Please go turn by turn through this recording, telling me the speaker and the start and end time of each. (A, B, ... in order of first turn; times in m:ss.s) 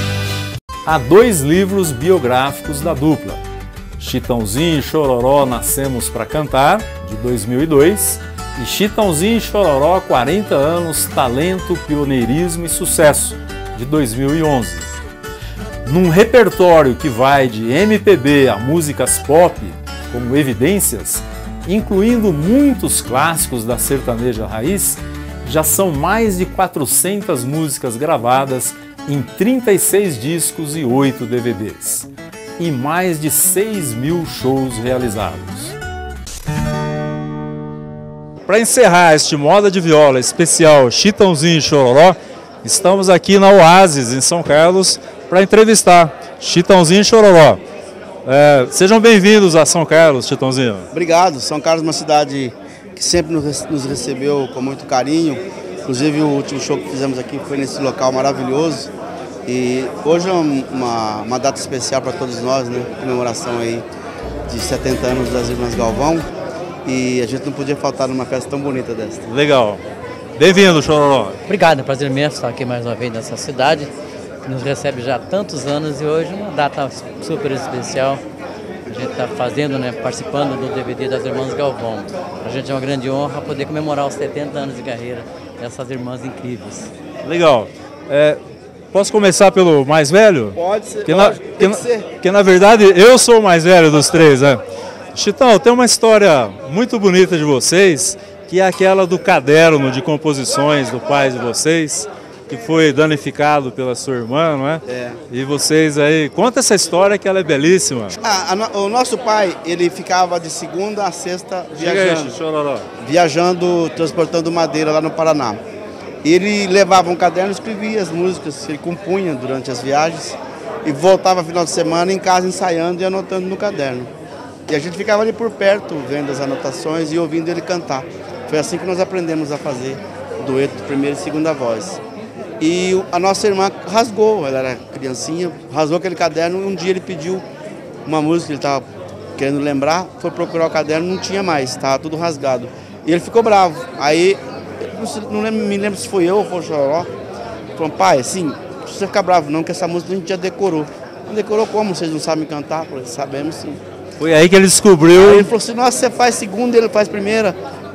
0:00.8-0:03.4 A
0:04.0-0:14.9 A
0:15.8-0:35.8 A
0:38.5-0:47.6 A
0:48.2-0:50.9 A
0:50.9-0:58.9 B
0:59.4-1:03.8 B
1:04.5-1:06.2 B
1:06.8-1:09.2 B
1:09.2-1:09.8 A
1:10.4-1:11.4 A
1:11.5-1:13.9 C
1:14.4-1:18.2 C
1:18.9-1:26.9 C
1:27.2-1:28.4 A
1:28.9-1:34.6 A
1:30.5-1:32.1 B
1:35.1-1:48.2 A
1:44.9-1:45.2 B
1:48.2-1:52.4 B
1:51.7-1:52.9 A
1:53.0-1:55.6 B
1:56.2-2:04.1 B
2:04.7-2:12.0 B
2:12.6-2:17.4 B
2:18.0-2:18.8 B
2:19.4-2:27.1 B
2:27.8-2:33.8 B
2:34.2-2:35.5 A
2:35.1-2:37.6 B